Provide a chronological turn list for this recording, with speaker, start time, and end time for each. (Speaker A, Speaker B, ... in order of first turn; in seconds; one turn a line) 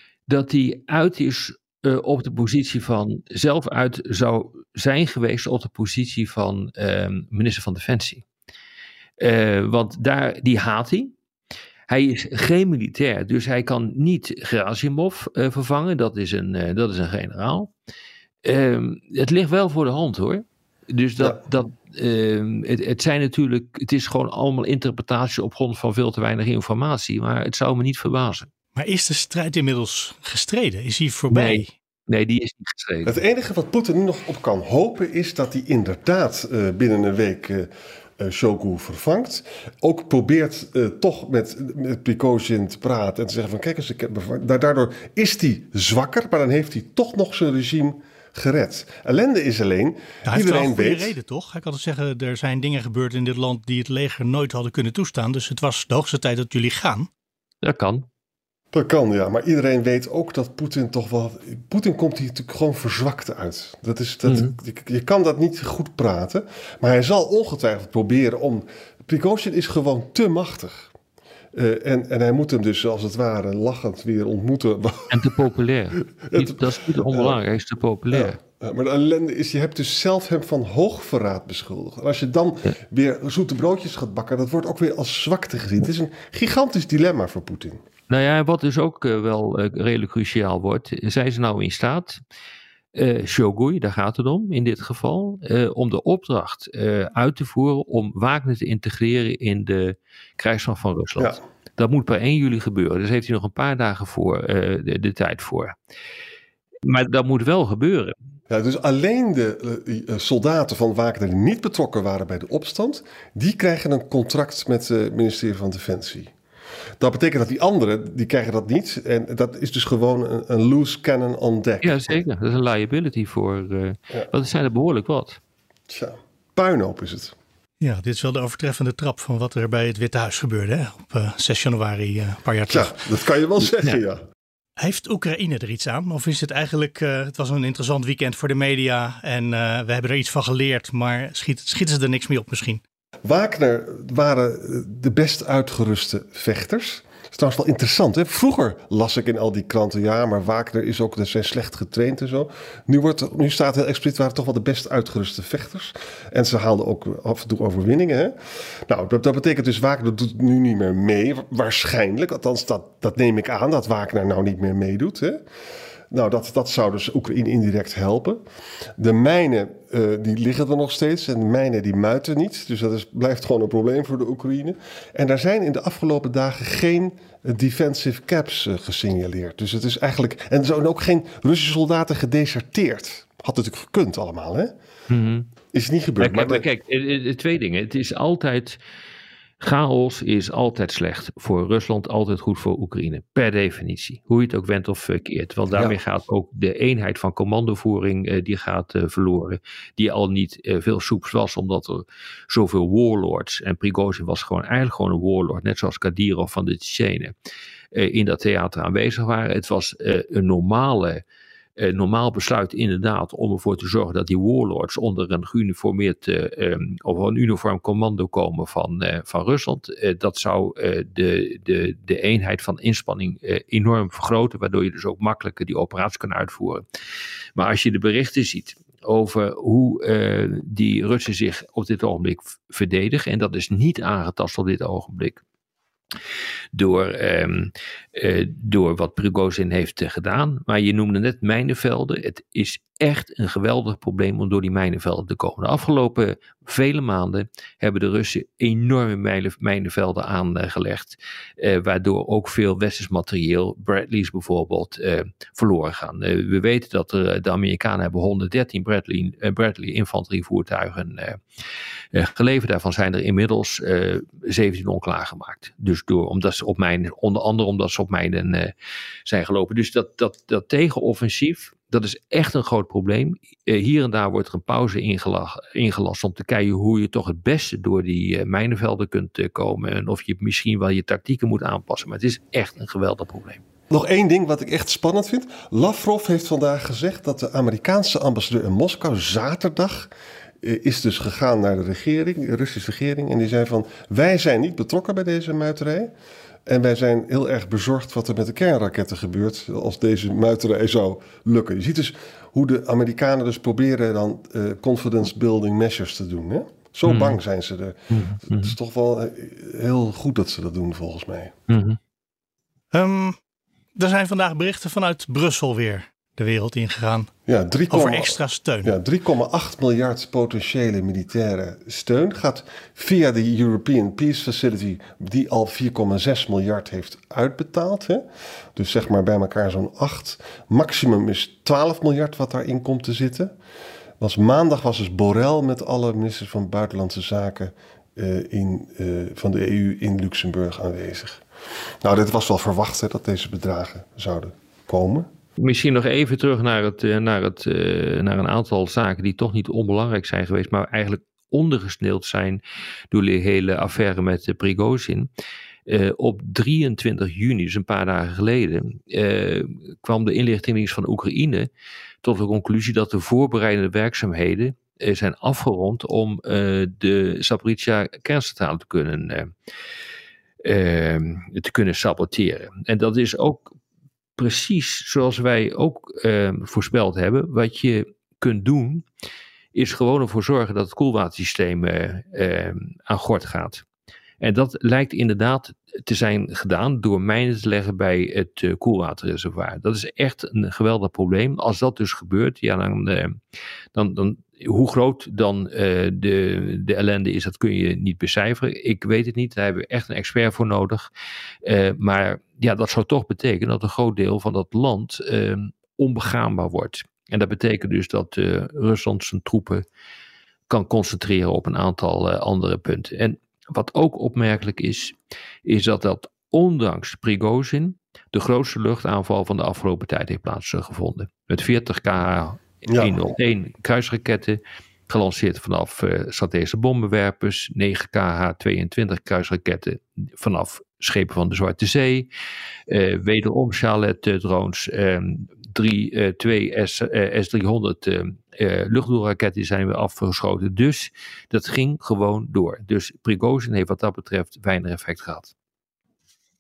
Speaker A: 0.3-8.2
Speaker A: 9.2-11.1
Speaker A: 11.9-17.7
Speaker A: 18.4-28.5
Speaker B: 28.7-31.7
Speaker A: 31.3-33.2
Speaker C: 33.0-51.1
Speaker B: 50.2-57.1
Speaker A: 57.6-58.0
Speaker C: 58.7-70.9
Speaker A: 64.2-64.5
Speaker C: 71.5-75.3
Speaker A: 75.1-78.4
Speaker C: 76.2-77.4
Speaker C: 78.1-87.8
Speaker A: 88.1-92.2
Speaker A: 92.9-105.7
Speaker A: 106.8-108.1
Speaker C: 108.5-116.3
Speaker C: 117.0-122.2
Speaker A: 121.8-125.4
Speaker C: 125.9-127.3
Speaker B: 127.8-132.9
Speaker C: 132.7-134.2
Speaker B: 134.8-142.8
Speaker C: 143.2-158.3
Speaker C: 158.9-165.4
Speaker C: 166.1-168.4
Speaker C: 169.0-184.7
Speaker A: 185.1-185.5
Speaker C: 185.7-186.6
Speaker A: 186.2-188.8
Speaker A: 189.6-207.3
Speaker C: 195.7-196.0
Speaker A: 207.9-211.2
Speaker A: 211.8-226.8
Speaker A: 227.6-235.4
Speaker A: 236.7-261.4
Speaker A: 262.1-268.7
Speaker A: 269.2-283.6
Speaker C: 283.9-290.1
Speaker C: 290.6-296.1
Speaker C: 296.7-311.5
Speaker A: 307.0-307.4
Speaker A: 308.1-308.8
Speaker A: 311.7-312.0
Speaker B: 312.9-313.4
Speaker B: 313.9-317.3
Speaker C: 317.5-328.2
Speaker B: 317.9-318.9
Speaker C: 328.7-333.5
Speaker C: 334.2-341.4
Speaker C: 342.0-345.3
Speaker A: 345.6-355.3
Speaker A: 355.9-361.7
Speaker A: 362.2-369.5
Speaker A: 370.6-373.7
Speaker A: 374.4-379.0
Speaker A: 379.7-383.8
Speaker A: 384.4-393.4
Speaker A: 393.9-401.1
Speaker A: 401.6-409.9
Speaker A: 410.7-432.3
Speaker C: 422.9-423.2
Speaker A: 432.9-445.5